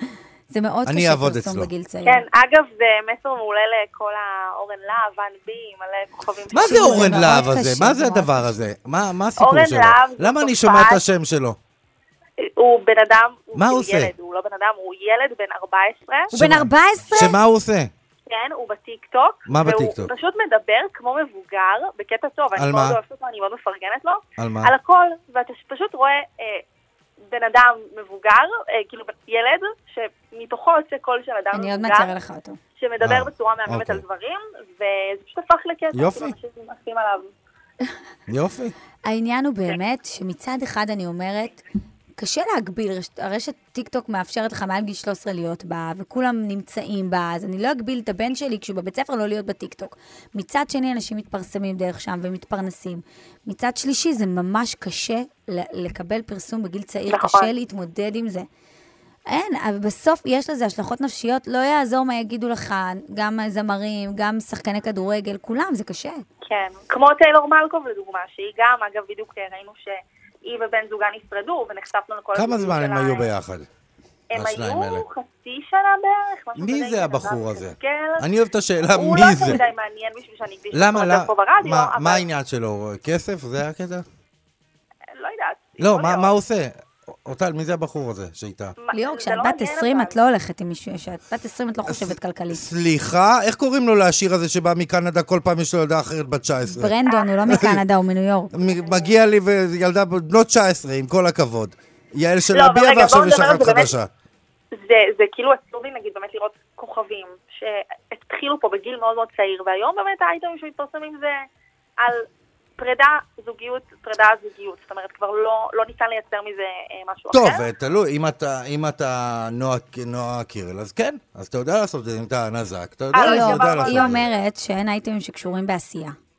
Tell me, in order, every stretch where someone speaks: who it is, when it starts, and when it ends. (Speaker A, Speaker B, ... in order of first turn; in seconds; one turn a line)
Speaker A: 0.5-2.2
Speaker B: 0.8-1.7
Speaker C: 2.0-7.5
Speaker B: 6.5-11.6
Speaker A: 6.6-8.5
Speaker C: 9.4-11.0
Speaker C: 12.6-16.3
Speaker B: 13.5-14.1
Speaker B: 16.3-17.9
Speaker A: 16.3-17.3
Speaker C: 18.3-26.6
Speaker B: 19.5-20.1
Speaker B: 22.6-23.0
Speaker B: 24.4-24.7
Speaker C: 27.3-32.1
Speaker A: 31.5-32.6
Speaker C: 32.8-37.2
Speaker B: 33.0-34.0
Speaker B: 35.9-36.3
Speaker B: 38.3-38.7
Speaker A: 39.0-41.6
Speaker A: 42.2-58.5
Speaker C: 57.1-57.5
Speaker A: 59.3-66.2
Speaker C: 66.4-73.3
Speaker B: 72.3-73.7
Speaker C: 74.3-78.2
Speaker B: 74.3-75.0
Speaker B: 76.6-79.6
Speaker C: 78.9-82.2
Speaker B: 80.7-84.0
Speaker C: 85.2-86.3
Speaker B: 85.8-86.7
Speaker B: 87.2-88.7
Speaker C: 88.8-90.2
Speaker A: 88.9-92.6
Speaker B: 91.8-97.8
Speaker A: 96.7-98.5
Speaker C: 97.1-97.6
Speaker B: 98.5-104.1
Speaker C: 98.8-99.1
Speaker C: 102.5-104.0
Speaker C: 104.7-111.3
Speaker C: 112.0-112.2
Speaker C: 112.8-117.6
Speaker B: 117.3-124.2
Speaker C: 123.1-124.2
Speaker A: 123.2-126.2